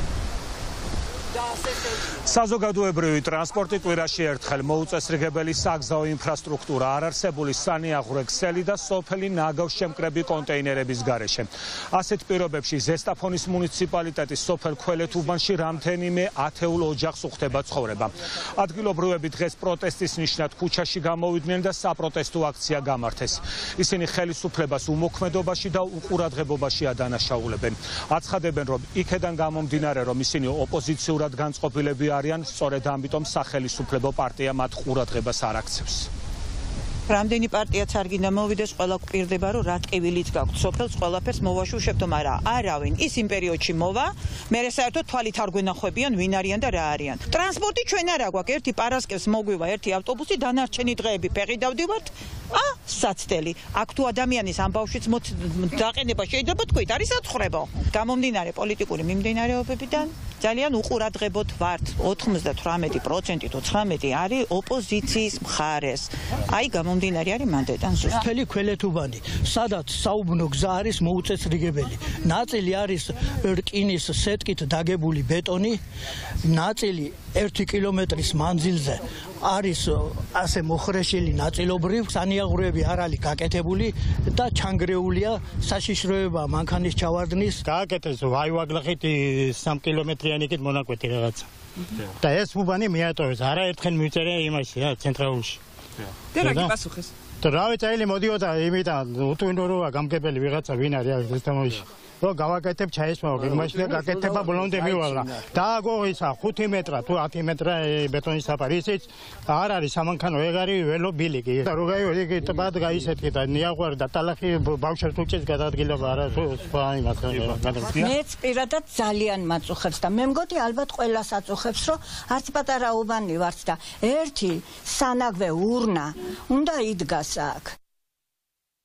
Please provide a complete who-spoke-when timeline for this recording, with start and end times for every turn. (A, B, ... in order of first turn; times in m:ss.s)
0:02.3-0:36.1 A
0:37.1-1:08.2 B
1:08.1-1:15.8 C
1:16.4-1:27.6 C
1:27.6-1:35.6 D
1:36.3-1:36.8 D
1:37.4-1:58.0 D
1:57.4-1:58.1 A
1:57.9-2:07.8 E